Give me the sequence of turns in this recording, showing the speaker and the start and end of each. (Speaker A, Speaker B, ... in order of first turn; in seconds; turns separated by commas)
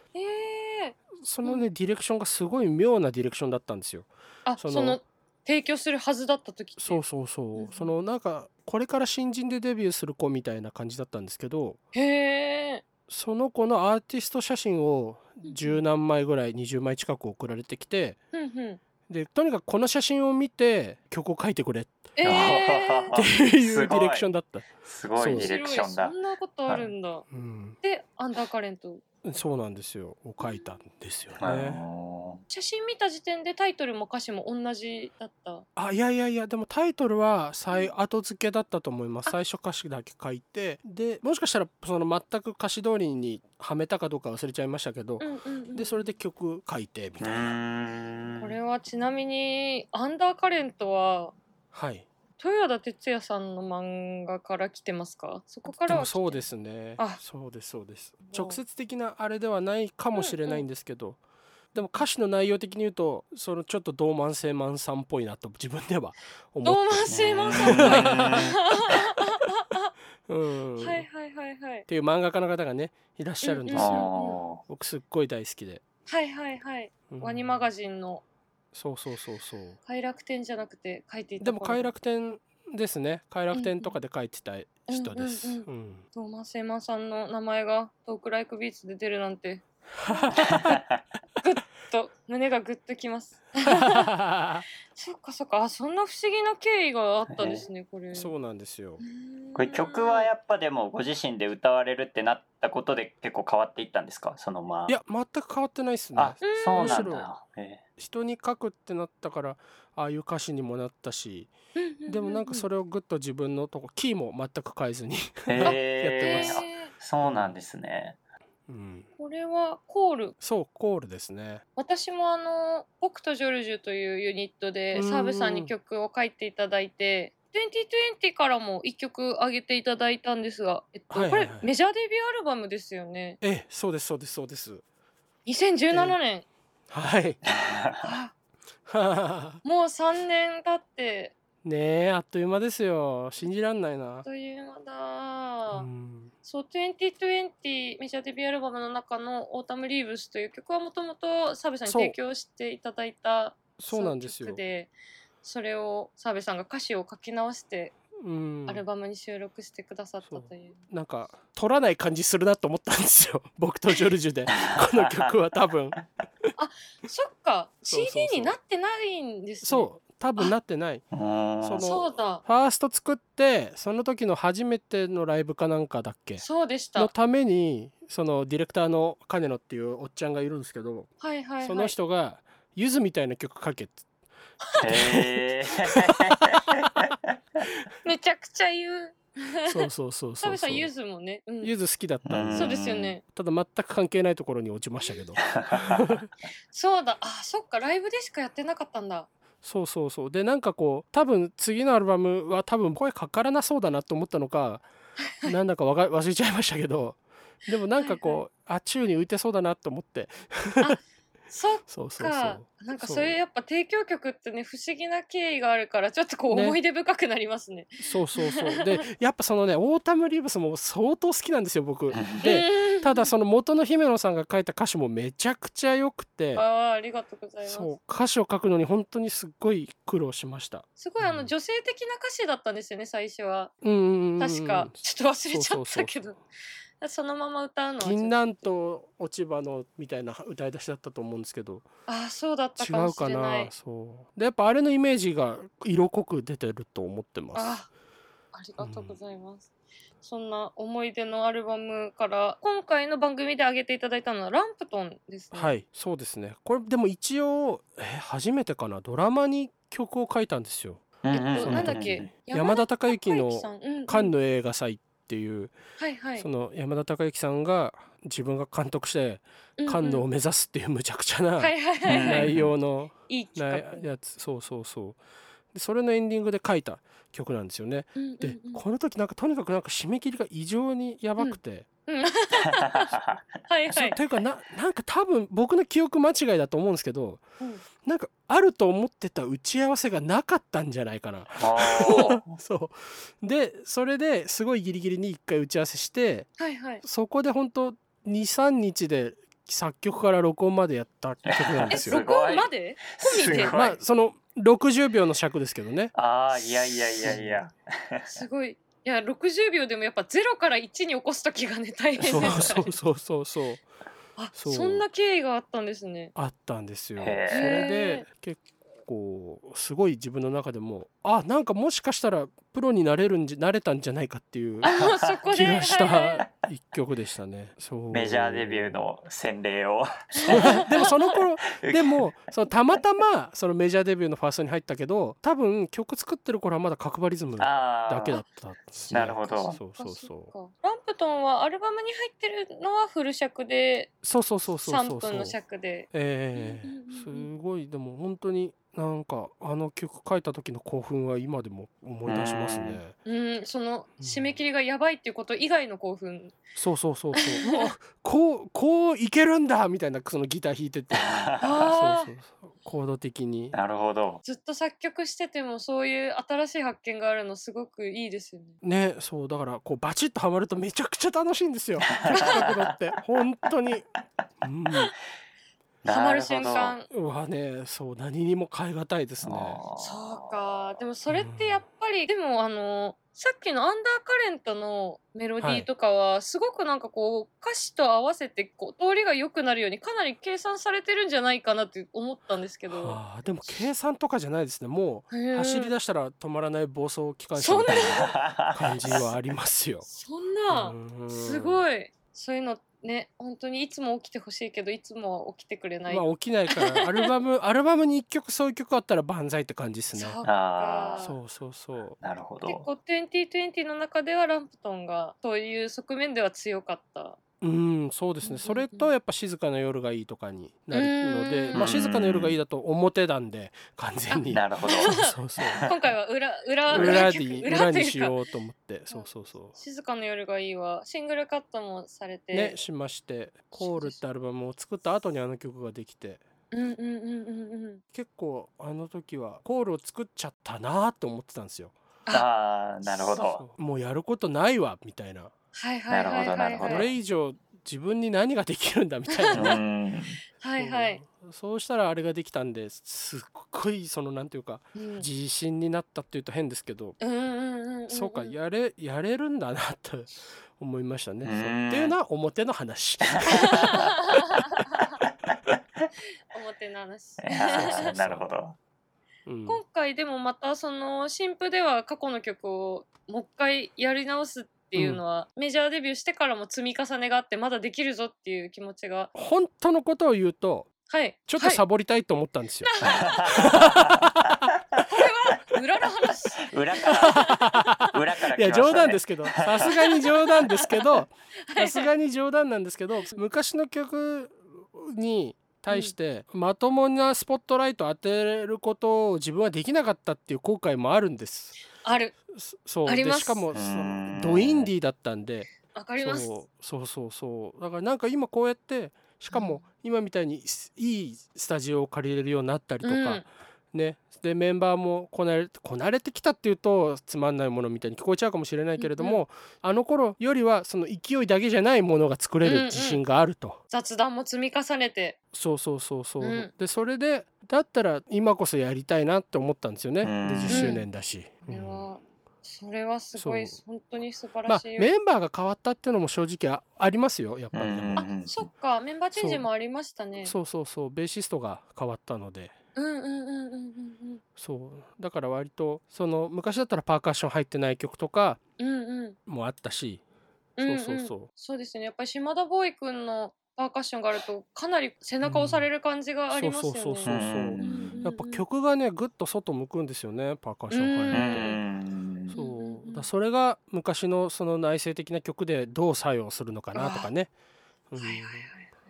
Speaker A: 0.1-1.6, Speaker B: 1.1-4.1, Speaker A: 4.5-7.0, Speaker B: 4.6-5.0, Speaker B: 6.8-11.8, Speaker A: 7.5-7.9, Speaker A: 11.9-12.8, Speaker B: 13.1-18.2, Speaker A: 15.4-15.8, Speaker A: 18.3-18.8, Speaker B: 19.1-22.4, Speaker A: 22.1-23.1, Speaker C: 22.2-24.3, Speaker B: 23.1-25.5, Speaker C: 24.8-26.1, Speaker A: 25.3-27.2, Speaker B: 27.3-27.8, Speaker A: 27.8-29.0, Speaker B: 29.2-31.8, Speaker A: 30.4-30.7, Speaker C: 31.4-32.4, Speaker A: 32.5-35.6, Speaker B: 35.8-47.5, Speaker A: 45.2-46.1, Speaker C: 47.2-48.5, Speaker A: 48.4-51.3, Speaker B: 51.7-52.1, Speaker A: 52.4-56.5, Speaker B: 55.7-61.2, Speaker A: 58.2-58.6, Speaker A: 60.1-60.6, Speaker B: 61.7-68.5, Speaker A: 66.6-69.9, Speaker C: 67.1-69.0, Speaker B: 70.3-71.0, Speaker A: 70.8-71.9, Speaker B: 71.9-74.1, Speaker A: 73.4-74.4, Speaker C: 73.7-74.6, Speaker B: 74.6-75.8, Speaker A: 76.1-78.2, Speaker B: 77.1-77.7, Speaker B: 78.7-79.8, Speaker A: 79.8-81.9, Speaker B: 81.4-86.0, Speaker A: 83.5-83.9, Speaker A: 84.9-90.7, Speaker B: 90.0-90.8, Speaker C: 90.3-91.0, Speaker A: 91.4-94.1, Speaker B: 93.7-94.7, Speaker A: 94.9-98.3, Speaker C: 97.3-97.7, Speaker B: 98.1-99.0, Speaker A: 99.0-100.3, Speaker C: 99.5-104.9, Speaker B: 104.9-107.3, Speaker C: 106.2-107.8, Speaker A: 106.4-107.2, Speaker B: 108.0-111.5, Speaker A: 111.7-112.7, Speaker B: 112.0-116.7, Speaker C: 115.5-118.2, Speaker A: 115.6-116.9, Speaker B: 117.2-117.5, Speaker B: 118.7-119.1, Speaker A: 119.2-120.3, Speaker B: 120.4-121.6, Speaker A: 121.8-133.4, Speaker B: 124.9-125.7, Speaker B: 131.1-131.7, Speaker B: 133.4-134.8, Speaker A: 135.4-136.4, Speaker B: 136.9-137.4, Speaker C: 137.5-138.1, Speaker A: 138.0-138.3, Speaker B: 138.9-139.6, Speaker A: 139.6-141.3, Speaker B: 141.6-144.2, Speaker A: 144.2-145.9, Speaker B: 145.7-146.3, Speaker A: 146.4-154.9, Speaker B: 151.8-152.2, Speaker B: 153.8-154.6, Speaker A: 155.4-157.9, Speaker B: 158.2-158.8, Speaker A: 158.7-160.8, Speaker B: 160.2-166.0, Speaker C: 164.6-165.3, Speaker A: 166.6-170.5, Speaker B: 167.9-168.6, Speaker B: 169.6-171.0, Speaker C: 171.1-171.8, Speaker B: 171.6-176.4, Speaker A: 171.8-172.4, Speaker A: 176.4-177.1, Speaker B: 176.9-181.1, Speaker A: 181.2-181.9, Speaker B: 181.6-184.0, Speaker A: 184.6-185.2, Speaker C: 184.8-187.1, Speaker B: 184.9-185.3, Speaker B: 185.9-186.4, Speaker A: 188.0-189.9, Speaker B: 189.6-190.9, Speaker A: 190.4-191.7, Speaker B: 191.6-192.8, Speaker C: 192.2-193.1, Speaker A: 192.5-193.2, Speaker B: 193.3-196.3, Speaker C: 195.5-196.0, Speaker A: 196.7-199.3, Speaker B: 199.6-204.8, Speaker B: 205.4-211.0, Speaker A: 207.9-208.4, Speaker A: 210.8-219.0, Speaker B: 211.9-213.3, Speaker B: 216.5-216.8, Speaker B: 218.0-226.6, Speaker C: 222.1-222.4, Speaker A: 222.4-223.3, Speaker A: 226.5-227.9, Speaker B: 227.6-231.5, Speaker A: 231.0-233.7, Speaker B: 233.8-236.2, Speaker A: 234.4-236.4, Speaker A: 237.0-238.4, Speaker B: 238.0-241.9, Speaker A: 242.1-243.7, Speaker B: 242.8-247.8, Speaker A: 247.5-247.9, Speaker A: 248.5-249.7, Speaker B: 248.8-249.2, Speaker A: 250.2-255.7, Speaker B: 255.5-265.7, Speaker C: 261.2-262.3, Speaker A: 261.3-264.3, Speaker A: 266.0-266.5, Speaker B: 266.4-275.2, Speaker A: 269.8-270.2, Speaker A: 271.6-272.5, Speaker C: 272.1-272.7, Speaker A: 273.3-274.1, Speaker B: 275.7-281.9, Speaker A: 278.2-278.8, Speaker A: 281.4-283.1, Speaker C: 282.7-283.4, Speaker A: 283.7-284.2, Speaker B: 283.9-287.4, Speaker B: 288.0-296.5, Speaker C: 291.6-292.5, Speaker A: 292.0-292.4, Speaker A: 296.6-297.0, Speaker B: 297.0-302.2, Speaker C: 301.5-304.0, Speaker A: 301.9-303.8, Speaker B: 303.6-306.1, Speaker C: 306.1-308.4, Speaker B: 307.2-307.6, Speaker A: 308.3-312.9, Speaker B: 312.2-313.8, Speaker A: 314.4-316.3, Speaker B: 314.5-315.0, Speaker B: 316.3-324.9, Speaker C: 317.2-317.8, Speaker A: 317.5-318.2, Speaker A: 324.8-326.4, Speaker C: 324.9-325.1, Speaker B: 325.5-329.1, Speaker C: 328.1-331.0, Speaker A: 330.4-331.3, Speaker B: 330.5-340.5, Speaker C: 331.7-332.3, Speaker C: 337.6-338.4, Speaker C: 339.1-339.8, Speaker A: 339.5-344.1, Speaker B: 344.2-345.6, Speaker A: 344.8-347.5, Speaker B: 346.1-353.1, Speaker C: 352.2-353.0, Speaker A: 353.2-356.6, Speaker B: 354.2-354.6, Speaker B: 356.7-363.8, Speaker A: 357.4-357.9, Speaker C: 361.1-361.8, Speaker A: 361.6-362.3, Speaker C: 363.7-364.4, Speaker A: 364.4-368.8, Speaker B: 368.8-374.1, Speaker C: 372.1-372.9, Speaker A: 372.3-372.7, Speaker B: 374.6-375.1, Speaker C: 376.0-377.0, Speaker A: 376.1-377.1, Speaker B: 377.1-379.8, Speaker C: 379.4-380.5, Speaker A: 380.0-393.2, Speaker B: 381.3-381.8, Speaker B: 385.6-385.9, Speaker B: 392.9-400.1, Speaker A: 395.3-395.9, Speaker A: 397.5-398.3, Speaker C: 397.9-399.3, Speaker A: 400.1-407.3, Speaker B: 400.7-401.8, Speaker B: 406.1-410.4, Speaker A: 410.1-411.4, Speaker C: 410.4-411.2, Speaker B: 411.2-412.2, Speaker C: 412.2-412.9, Speaker A: 412.6-417.4, Speaker B: 417.6-425.9, Speaker A: 418.4-419.1, Speaker A: 420.9-422.0, Speaker C: 421.7-422.6, Speaker A: 424.3-428.4, Speaker C: 424.5-425.9, Speaker C: 426.9-427.3, Speaker B: 426.9-429.8, Speaker A: 429.1-432.8, Speaker B: 432.5-436.4, Speaker A: 433.7-434.2, Speaker A: 436.7-438.0, Speaker B: 438.1-441.9, Speaker C: 442.3-443.6, Speaker B: 443.1-445.5, Speaker A: 445.7-447.1, Speaker C: 446.1-447.1, Speaker B: 446.8-449.8, Speaker A: 449.3-449.8, Speaker C: 449.5-450.4, Speaker A: 450.6-451.2, Speaker B: 450.8-457.1, Speaker A: 454.9-455.3, Speaker A: 457.2-458.6, Speaker B: 458.1-464.1, Speaker C: 461.4-462.1, Speaker C: 463.2-464.1, Speaker A: 463.5-465.1, Speaker A: 466.5-468.1, Speaker C: 467.4-468.8, Speaker B: 467.7-468.4, Speaker B: 469.4-469.8, Speaker A: 469.6-479.3, Speaker B: 474.9-475.2, Speaker B: 479.3-480.9, Speaker A: 481.1-481.8, Speaker B: 481.5-484.7, Speaker A: 482.8-483.8, Speaker C: 483.0-485.0, Speaker A: 485.0-487.9, Speaker C: 486.6-489.9, Speaker B: 487.1-501.8, Speaker A: 489.8-492.1, Speaker A: 502.0-502.3, Speaker B: 502.5-523.8, Speaker A: 503.1-503.6, Speaker C: 503.7-504.9, Speaker A: 505.9-506.5, Speaker A: 509.5-509.8, Speaker A: 513.0-513.4, Speaker A: 519.0-519.4, Speaker A: 522.6-523.2, Speaker A: 523.9-525.4, Speaker B: 525.5-532.0, Speaker A: 526.4-526.7, Speaker C: 530.2-530.9, Speaker A: 530.7-531.0, Speaker A: 531.7-535.1, Speaker B: 533.4-533.8, Speaker B: 534.7-538.3, Speaker C: 537.7-538.7, Speaker A: 538.2-540.5, Speaker B: 539.4-539.6, Speaker B: 540.4-542.7, Speaker A: 542.9-544.4, Speaker B: 544.6-548.6, Speaker A: 548.8-549.4, Speaker B: 549.5-550.2, Speaker A: 550.8-558.6, Speaker B: 550.8-551.5, Speaker B: 555.4-555.9, Speaker B: 556.5-561.6, Speaker C: 557.2-558.2, Speaker A: 560.9-561.8, Speaker C: 561.3-562.5, Speaker B: 562.5-567.5, Speaker A: 562.5-563.3, Speaker A: 566.9-567.3, Speaker B: 568.1-568.7, Speaker A: 568.2-568.9